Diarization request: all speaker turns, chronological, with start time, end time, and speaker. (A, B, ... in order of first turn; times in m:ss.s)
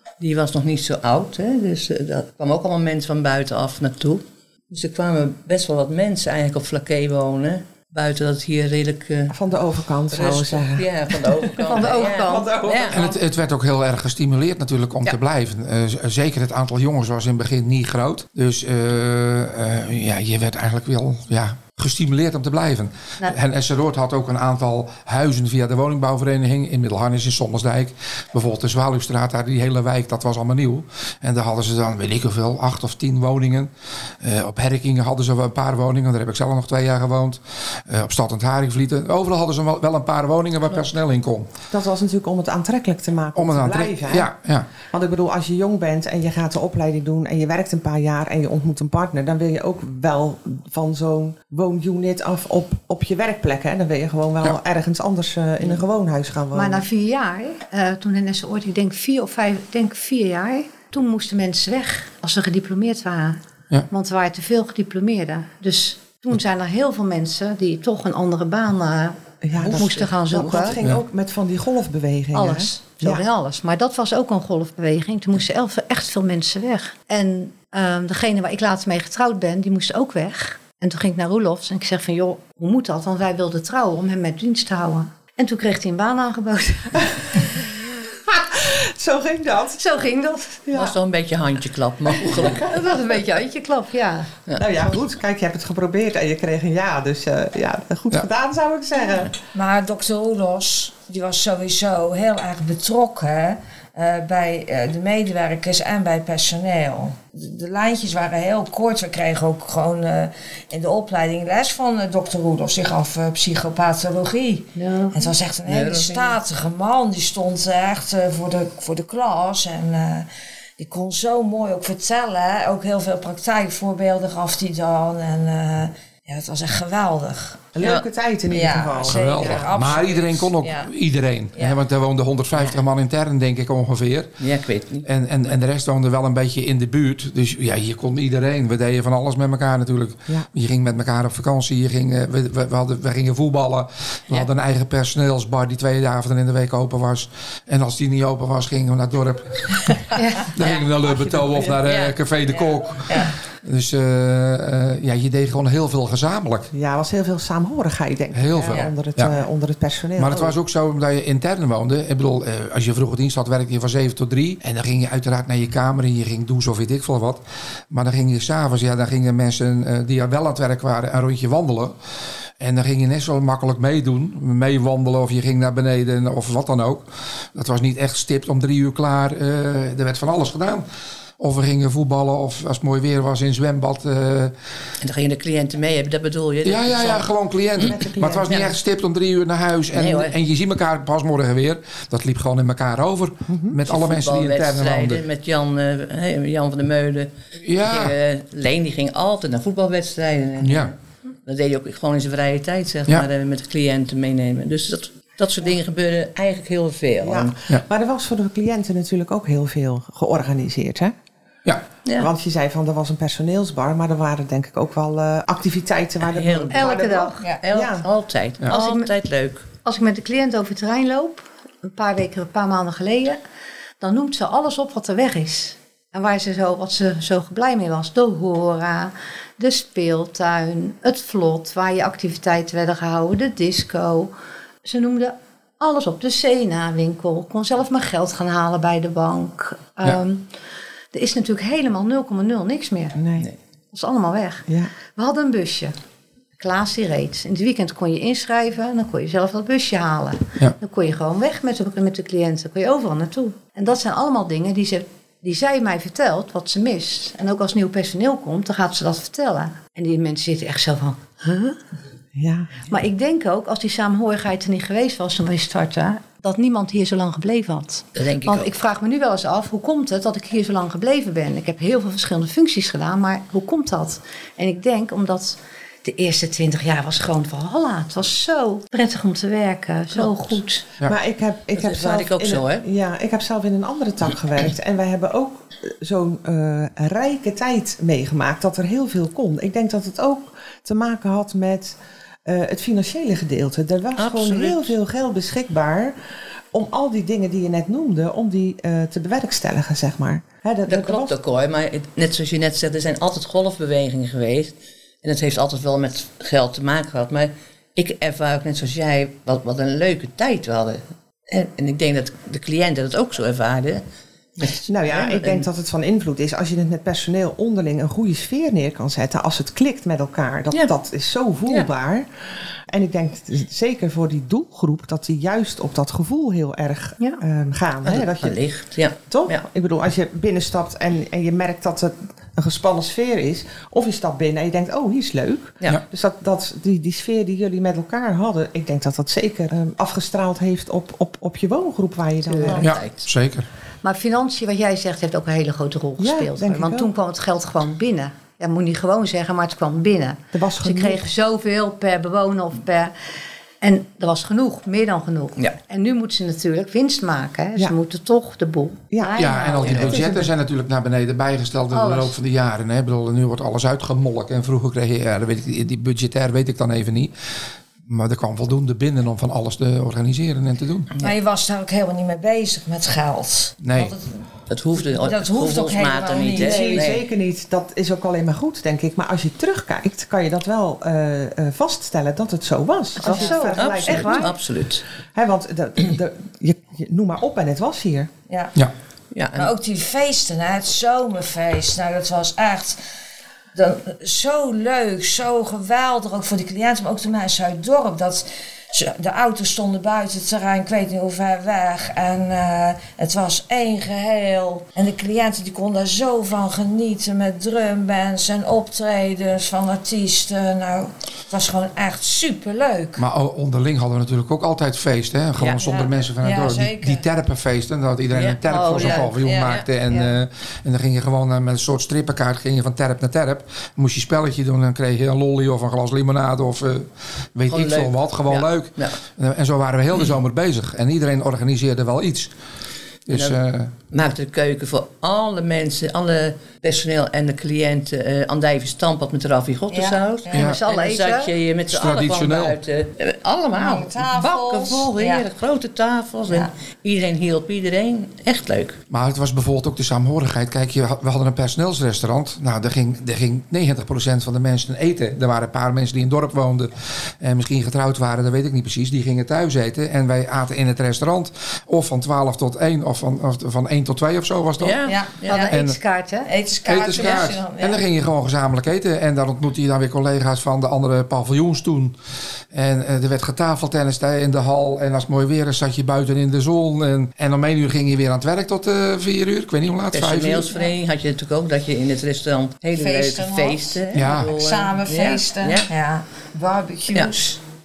0:00.2-0:09.4 A
0:09.3-0:13.2 B
0:10.1-0:13.0 A
0:11.6-0:12.5 C
0:12.9-0:33.7 D
0:34.2-0:41.5 D
0:41.7-0:44.3 B
0:43.4-0:44.7 D
0:44.9-0:56.8 B
0:56.5-1:10.8 C
1:09.4-1:13.2 B
1:09.6-1:10.8 A
1:12.3-1:27.4 C
1:28.2-1:29.8 B
1:29.8-1:30.9 C
1:30.7-1:30.9 B
1:30.7-1:32.7 A
1:32.5-1:34.3 C
1:34.6-1:39.3 B
1:39.5-2:07.7 E
1:54.8-1:55.3 C
1:55.7-1:56.4 A
2:07.7-2:09.9 B
2:07.8-2:08.0 A
2:08.5-2:10.9 E
2:09.1-2:14.3 D
2:14.4-2:15.1 A
2:15.0-2:36.7 D
2:30.2-2:30.5 C
2:31.0-2:31.8 B
2:31.8-2:32.1 A
2:32.5-2:33.3 E
2:36.7-2:40.5 B
2:38.3-2:39.4 D
2:40.2-2:52.0 D
2:52.6-3:00.8 D
3:01.4-3:04.5 D
3:05.0-3:07.9 A
3:06.6-3:15.2 D
3:07.8-3:08.7 B
3:09.9-3:10.4 A
3:13.5-3:13.8 B
3:13.9-3:27.6 A
3:17.6-3:18.1 D
3:20.6-3:20.9 D
3:27.2-3:31.1 B
3:32.0-3:32.3 A
3:32.2-3:38.1 B
3:36.2-3:37.0 A
3:36.7-3:37.5 C
3:37.6-3:39.7 A
3:38.7-3:39.1 C
3:39.8-3:43.4 C
3:44.0-3:54.3 C
3:54.8-4:00.5 C
4:01.1-4:03.2 C
4:03.2-4:03.5 B
4:03.9-4:05.9 C
4:06.6-4:21.8 C
4:22.3-4:22.8 B
4:22.9-4:40.9 C
4:28.1-4:28.7 A
4:41.0-4:56.1 B
4:41.7-4:42.8 A
4:54.2-4:54.9 A
4:56.7-5:01.4 B
5:00.9-5:14.0 A
5:14.6-5:15.6 A
5:14.8-5:22.3 B
5:22.9-5:28.6 B
5:28.0-5:29.6 A
5:29.3-5:42.8 B
5:42.5-5:43.0 C
5:42.7-5:43.2 A
5:42.8-5:43.6 D
5:44.0-5:53.1 C
5:46.2-5:47.1 B
5:50.5-5:51.3 B
5:53.8-6:00.5 C
5:59.1-5:59.5 B
5:59.4-6:07.3 D
5:59.8-6:00.3 A
6:01.9-6:02.3 C
6:08.1-6:11.1 D
6:11.2-6:14.4 E
6:13.8-6:14.1 D
6:14.7-6:17.2 A
6:15.0-6:17.1 E
6:16.6-6:24.5 B
6:23.2-6:24.5 C
6:23.6-6:25.0 A
6:25.3-6:28.3 B
6:28.5-6:28.7 E
6:29.3-6:29.7 A
6:29.6-6:33.0 E
6:33.7-6:53.2 E
6:53.2-7:12.5 D
6:55.8-6:57.2 E
6:58.3-6:59.9 A
6:58.7-6:59.4 C
6:58.9-6:59.8 E
7:07.7-7:09.2 A
7:13.3-7:13.9 D
7:13.3-7:13.6 A
7:14.1-7:29.0 A
7:19.9-7:20.7 E
7:20.5-7:21.5 C
7:20.5-7:20.8 D
7:21.9-7:22.8 D
7:23.8-7:25.4 E
7:29.1-7:45.1 D
7:44.8-7:45.6 A
7:45.0-7:45.7 E
7:45.5-7:46.5 C
7:45.7-7:46.0 D
7:46.4-7:48.0 E
7:46.8-7:52.2 D
7:52.7-8:00.7 D
8:00.1-8:05.9 A
8:02.9-8:03.9 E
8:04.1-8:04.6 D
8:04.5-8:07.6 E